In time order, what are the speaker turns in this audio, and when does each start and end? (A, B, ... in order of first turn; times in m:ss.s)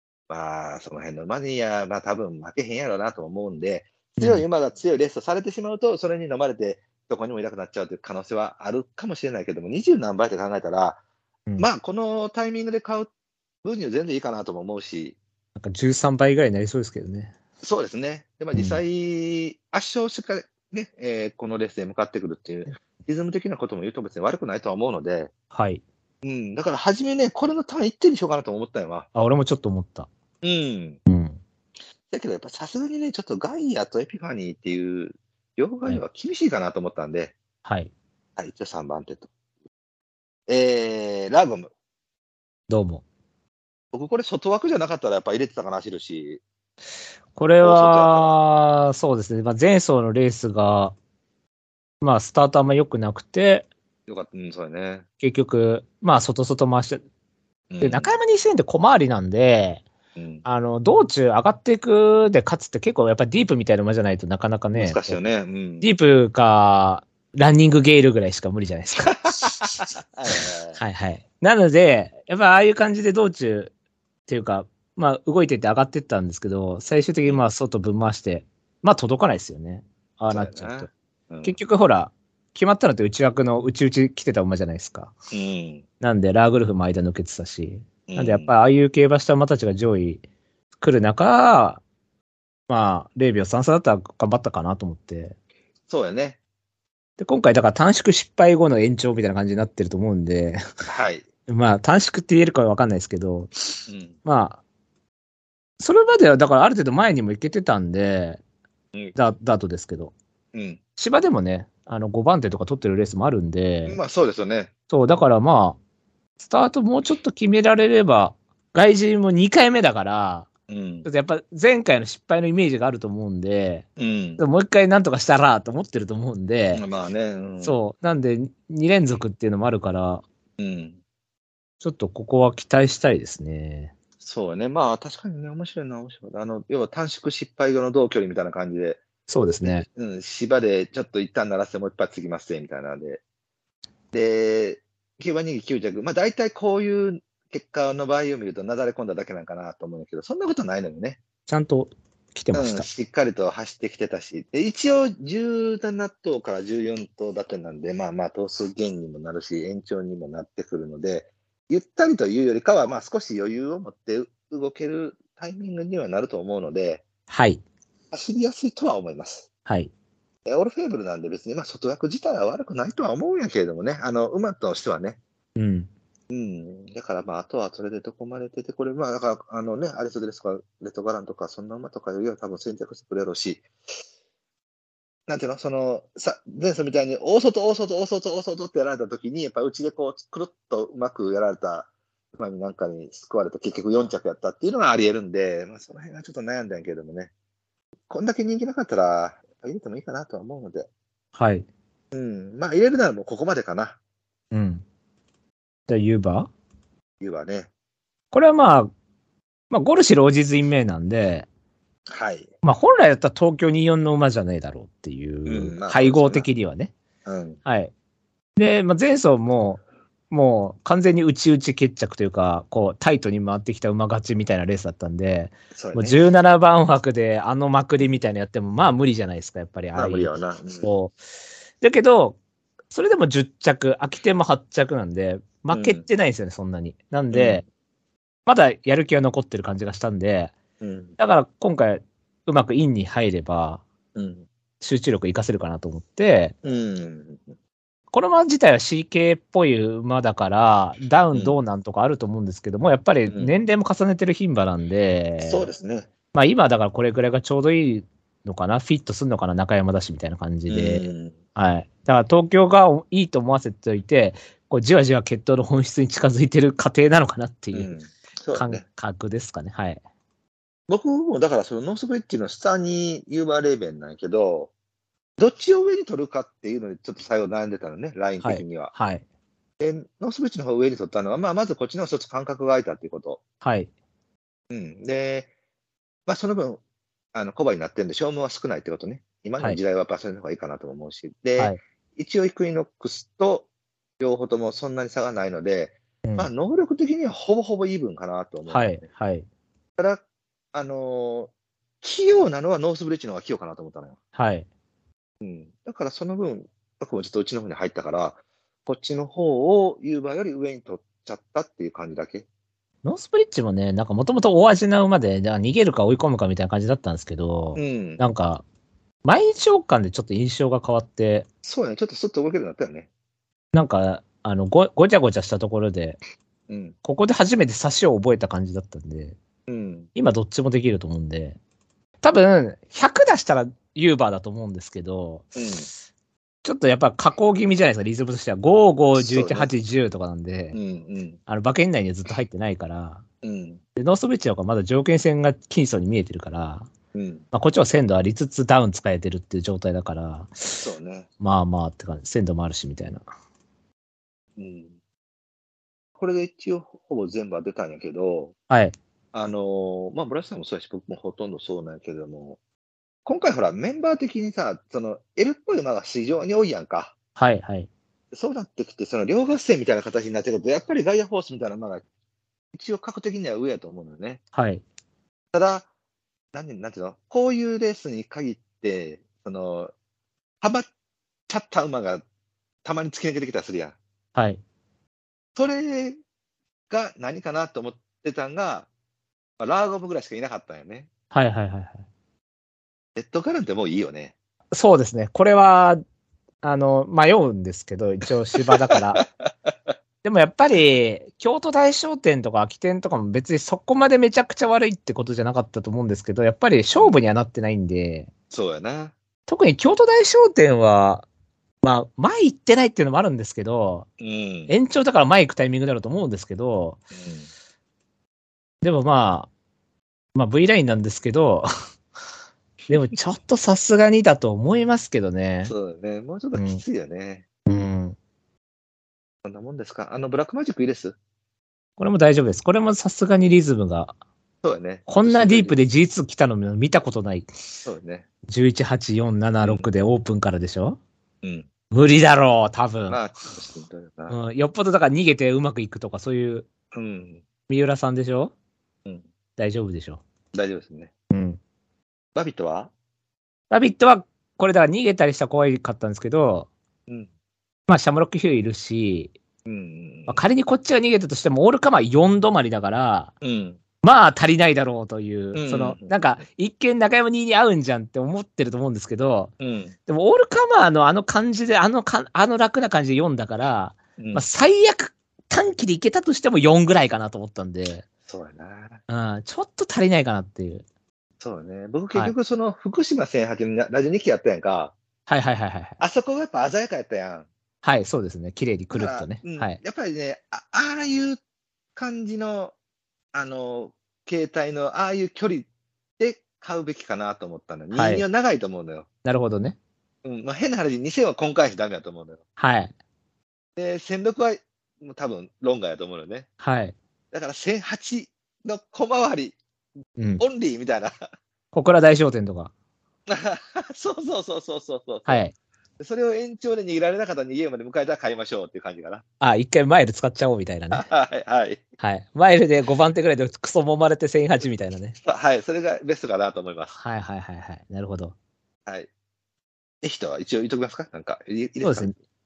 0:00.3-0:11.0 A
0:04.2-0:04.4 B
0:11.6-0:13.1 A
0:13.6-0:15.2 A
0:15.6-0:17.3 B
0:17.6-0:25.3 A
0:18.5-0:18.8 B
0:25.5-0:25.8 B
0:26.2-0:29.1 A
0:29.1-0:30.1 B
0:30.4-0:31.0 A
0:31.1-0:31.4 B
0:32.1-0:37.3 A
0:37.6-0:37.9 B
0:38.4-0:39.3 A
0:40.5-0:41.7 A
0:42.7-0:43.0 B
0:43.9-0:46.4 A
0:47.3-0:50.9 B
0:47.6-0:48.4 A
0:52.0-0:53.7 B
0:54.1-0:55.0 A
0:55.2-0:57.0 B
0:57.7-0:58.1 A
0:57.8-0:59.8 B
1:00.2-1:00.4 A
1:00.4-1:05.2 B
1:04.7-1:05.9 A
1:05.8-1:09.6 B
1:09.4-1:10.8 A
1:10.8-1:13.7 B
1:14.3-1:20.9 B
1:20.3-1:21.6 A
1:21.4-1:25.1 B
1:25.3-1:25.8 A
1:26.0-1:30.2 B
1:28.1-1:28.5 A
1:30.8-1:31.8 B
1:32.7-1:35.3 B
1:35.9-1:36.4 A
1:37.2-1:40.6 B
1:40.9-1:41.2 A
1:41.5-1:43.5 B
1:43.9-1:44.2 A
1:44.2-1:44.6 B
1:45.8-1:48.4 B
1:49.1-1:50.1 B
1:50.5-1:50.8 A
1:51.0-1:54.0 B
1:53.8-1:54.7 A
1:54.9-1:55.8 B
1:56.4-2:00.5 B
2:00.7-2:01.1 A
2:01.0-2:03.8 B
2:04.0-2:04.4 A
2:04.4-2:06.8 B
2:06.7-2:07.8 A
2:07.6-2:10.2 B
2:10.6-2:11.0 A
2:11.8-2:13.9 B
2:14.2-2:19.0 A
2:19.3-2:19.8 B
2:19.6-2:23.2 A
2:24.1-2:31.2 A
2:31.5-2:32.9 B
2:32.5-2:47.0 A
2:47.3-2:47.6 B
2:48.1-2:49.5 A
2:49.6-2:49.9 B
2:50.4-2:55.2 A
2:55.6-2:55.9 B
2:56.3-3:03.6 A
3:05.3-3:17.3 A
3:18.1-3:20.9 A
3:21.3-3:21.6 B
3:22.1-3:24.0 A
3:24.5-3:24.8 B
3:25.9-3:26.5 B
3:27.2-3:27.7 A
3:28.3-3:28.9 B
3:29.7-3:31.5 B
3:32.1-3:32.5 A
3:32.6-3:36.9 B
3:35.4-3:36.5 A
3:37.2-3:37.6 A
3:37.6-3:37.9 B
3:38.6-3:51.1 B
3:45.7-3:46.2 A
3:49.9-3:50.9 A
3:51.8-3:52.4 B
3:52.9-3:57.6 B
3:55.7-3:56.0 A
3:57.3-3:57.6 A
3:58.4-4:00.5 B
4:00.8-4:01.2 A
4:01.2-4:03.8 B
4:04.1-4:04.5 A
4:04.8-4:06.5 B
4:06.6-4:07.5 A
4:08.1-4:15.7 B
4:13.3-4:13.5 A
4:15.4-4:16.1 A
4:16.3-4:27.9 B
4:20.7-4:21.4 A
4:27.7-4:28.8 A
4:28.5-4:30.0 B
4:30.9-4:34.7 A
4:35.4-4:38.9 A
4:38.4-4:39.2 B
4:39.8-4:43.4 A
4:43.6-4:43.9 B
4:44.7-4:45.5 A
4:46.3-4:46.8 A
4:47.3-4:53.7 A
4:54.2-4:59.0 A
4:56.2-4:56.5 B
4:58.7-4:59.4 B
5:00.0-5:00.2 A
5:00.7-5:04.2 A
5:04.4-5:04.6 B
5:05.4-5:12.4 A
5:13.0-5:18.6 B
5:17.8-5:18.2 A
5:19.2-5:21.5 B
5:21.6-5:23.1 A
5:23.7-5:26.2 B
5:26.7-5:26.9 A
5:27.0-5:29.4 B
5:29.7-5:30.1 A
5:30.1-5:31.6 B
5:32.2-5:35.6 B
5:35.6-5:35.9 A
5:36.6-5:40.8 B
5:39.1-5:39.7 A
5:40.7-5:41.4 A
5:41.5-5:43.2 B
5:43.4-5:43.8 A
5:44.0-5:46.9 B
5:47.1-5:47.4 A
5:47.5-5:50.8 B
5:50.8-5:51.3 A
5:51.4-5:53.2 B
5:54.6-5:55.0 A
5:56.2-5:58.5 A
5:58.7-5:59.0 B
5:59.3-6:02.6 A
6:03.2-6:07.1 A
6:07.4-6:07.9 B
6:08.3-6:12.0 A
6:12.7-6:14.4 A
6:14.5-6:14.8 B
6:15.5-6:15.9 A
6:16.5-6:19.9 A
6:20.6-6:20.9 A
6:21.5-6:22.2 A
6:22.8-6:24.0 A
6:24.3-6:24.6 B
6:25.6-6:26.2 A
6:26.9-6:28.9 A
6:29.6-6:31.1 A
6:31.3-6:32.0 B
6:33.2-6:34.3 A
6:34.7-6:36.0 B
6:36.6-6:39.2 B
6:38.6-6:39.9 A
6:40.2-6:48.3 B
6:46.9-6:47.2 A
6:48.5-6:49.1 A
6:49.5-6:51.2 B
6:51.8-6:54.1 B
6:54.2-6:54.7 A
6:54.7-6:57.0 B
6:57.1-6:57.5 A
6:58.8-6:59.5 B
7:00.3-7:01.7 B
7:02.9-7:05.7 B
7:05.6-7:07.4 A
7:06.5-7:06.8 B
7:07.6-7:08.2 B
7:09.4-7:11.2 A
7:12.0-7:14.1 B
7:14.6-7:15.8 A
7:15.1-7:17.5 B
7:17.8-7:18.3 A
7:18.5-7:21.0 B
7:19.6-7:19.9 A
7:21.4-7:21.7 A
7:21.9-7:23.2 B
7:23.1-7:24.4 A
7:24.3-7:26.7 B
7:26.9-7:27.4 A
7:27.7-7:28.5 B
7:29.6-7:30.2 B
7:30.5-7:31.1 A
7:31.3-7:31.6 B
7:32.3-7:32.9 A
7:33.7-7:36.7 B
7:37.9-7:39.3 B
7:39.6-7:40.4 A
7:40.3-7:43.3 B
7:43.4-7:43.8 A
7:44.0-7:49.5 B
7:45.5-7:46.1 A
7:49.6-7:49.9 A
7:50.0-7:58.0 B
7:54.2-7:54.4 A
7:58.3-7:59.0 A
7:59.1-8:00.8 B
8:01.4-8:04.9 A
8:05.3-8:06.0 B
8:06.0-8:07.5 A
8:07.8-8:09.8 B
8:08.9-8:11.4 A
8:11.9-8:12.7 A
8:13.3-8:15.7 A
8:16.2-8:19.1 A
8:17.9-8:18.2 B
8:19.2-8:19.8 B
8:20.2-8:22.4 A
8:22.6-8:22.9 B
8:23.8-8:26.5 A
8:26.6-8:27.0 B
8:27.3-8:29.6 A
8:30.2-8:30.4 B
8:30.4-8:31.2 A
8:31.7-8:32.7 B
8:33.3-8:35.4 A
8:35.2-8:35.5 B
8:36.0-8:39.2 A
8:39.4-8:41.0 B
8:40.9-8:41.8 A
8:42.0-8:45.2 B
8:45.2-8:47.0 A
8:46.9-8:48.3 B
8:50.0-8:52.1 A
8:51.8-8:52.1 B